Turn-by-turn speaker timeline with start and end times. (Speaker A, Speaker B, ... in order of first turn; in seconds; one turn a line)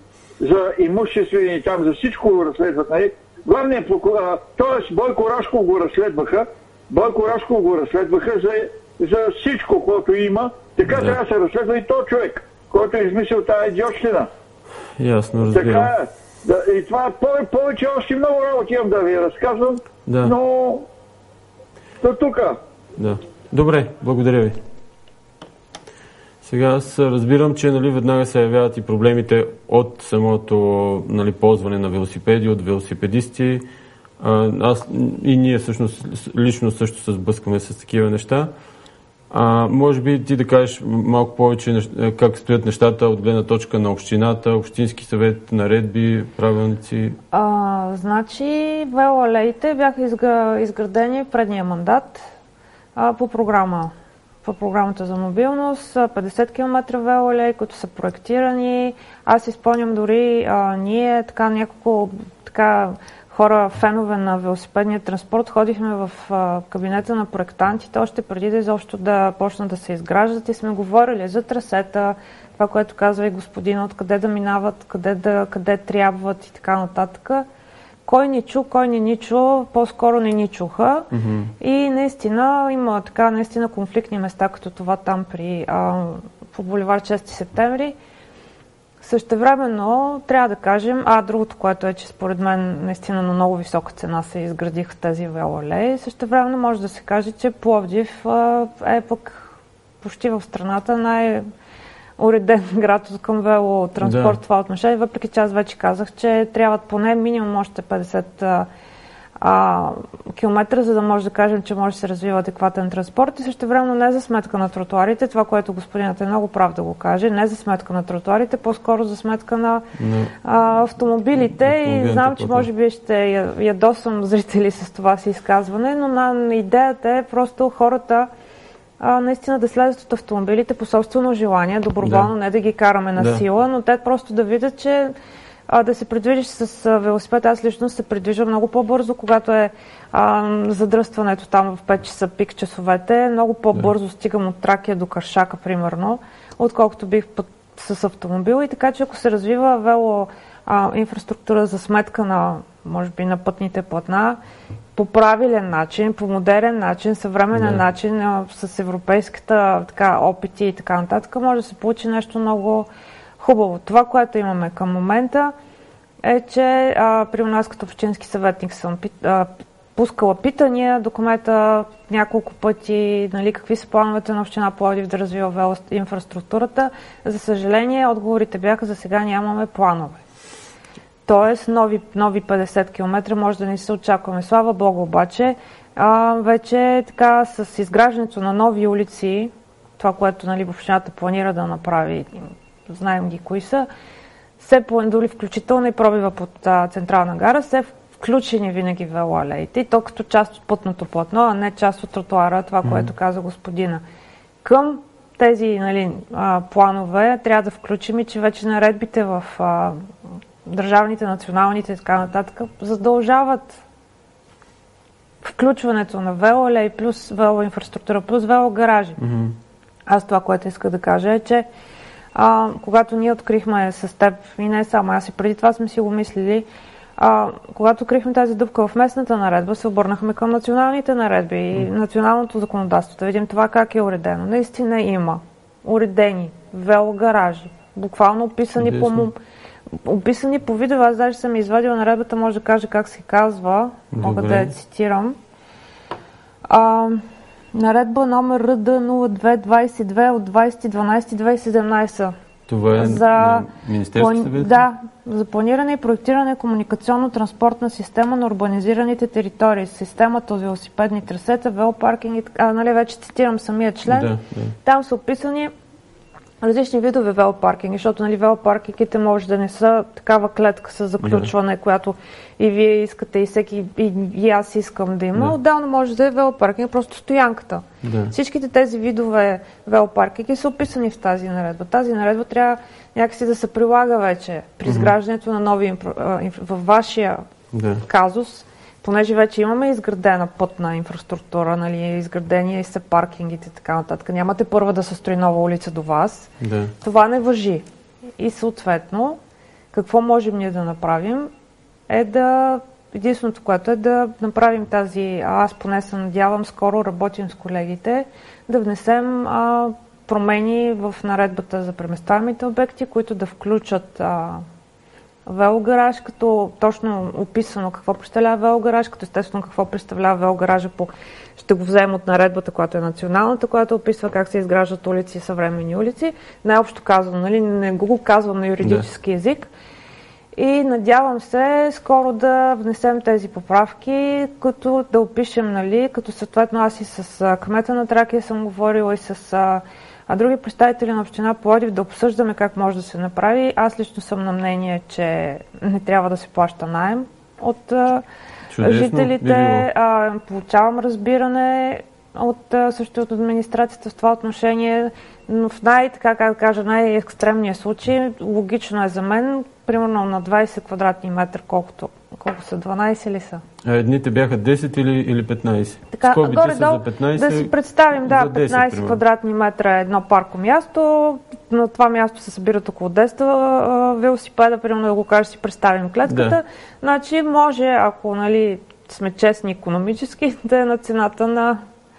Speaker A: 0.4-14.3
Speaker B: 10.9-11.2
Speaker B: 15.0-15.9
Speaker A: 15.5-20.9
Speaker B: 20.1-20.4
Speaker A: 22.0-22.6
Speaker B: 23.0-24.6
Speaker B: 26.4-33.6
Speaker B: 34.2-38.5
Speaker B: 39.3-47.2
Speaker C: 47.3-52.3
Speaker C: 53.0-53.9
Speaker C: 54.4-77.5
Speaker C: 78.1-81.1
Speaker B: 81.1-81.5
Speaker C: 81.6-88.0
Speaker C: 89.0-99.5
Speaker C: 100.0-101.5
Speaker C: 102.2-108.7
Speaker B: 104.0-104.4
Speaker C: 109.4-119.9
Speaker B: 120.0-120.3
Speaker C: 120.4-128.3
Speaker B: 121.5-122.7
Speaker C: 129.0-135.1
Speaker B: 132.0-132.3
Speaker B: 133.2-133.4
Speaker C: 135.7-154.4
Speaker C: 155.0-162.9
Speaker B: 157.5-157.8
Speaker C: 163.4-165.5
Speaker C: 166.2-180.2
Speaker C: 181.3-193.9
Speaker C: 194.6-204.0
Speaker C: 204.6-210.0
Speaker C: 210.7-213.8
Speaker C: 215.4-219.2
Speaker B: 219.2-219.6
Speaker C: 220.1-221.7
Speaker C: 222.3-226.7
Speaker C: 227.2-239.4
Speaker B: 238.8-239.3
Speaker C: 239.9-245.4
Speaker B: 244.1-244.7
Speaker C: 246.7-247.2
Speaker C: 247.7-252.3
Speaker B: 252.7-254.8
Speaker C: 253.0-264.3
Speaker B: 264.1-264.8
Speaker C: 264.8-265.7
Speaker C: 266.6-287.4
Speaker B: 271.2-271.5
Speaker B: 278.0-278.3
Speaker B: 284.9-285.1
Speaker B: 287.7-288.0
Speaker C: 288.0-296.5
Speaker B: 296.6-296.9
Speaker C: 297.0-297.8
Speaker C: 298.4-299.4
Speaker C: 299.9-301.5
Speaker C: 302.1-314.6
Speaker C: 315.5-329.7
Speaker C: 330.6-348.2
Speaker B: 348.7-349.9
Speaker C: 348.8-363.6
Speaker B: 363.8-369.2
Speaker C: 366.1-381.8
Speaker B: 376.3-376.6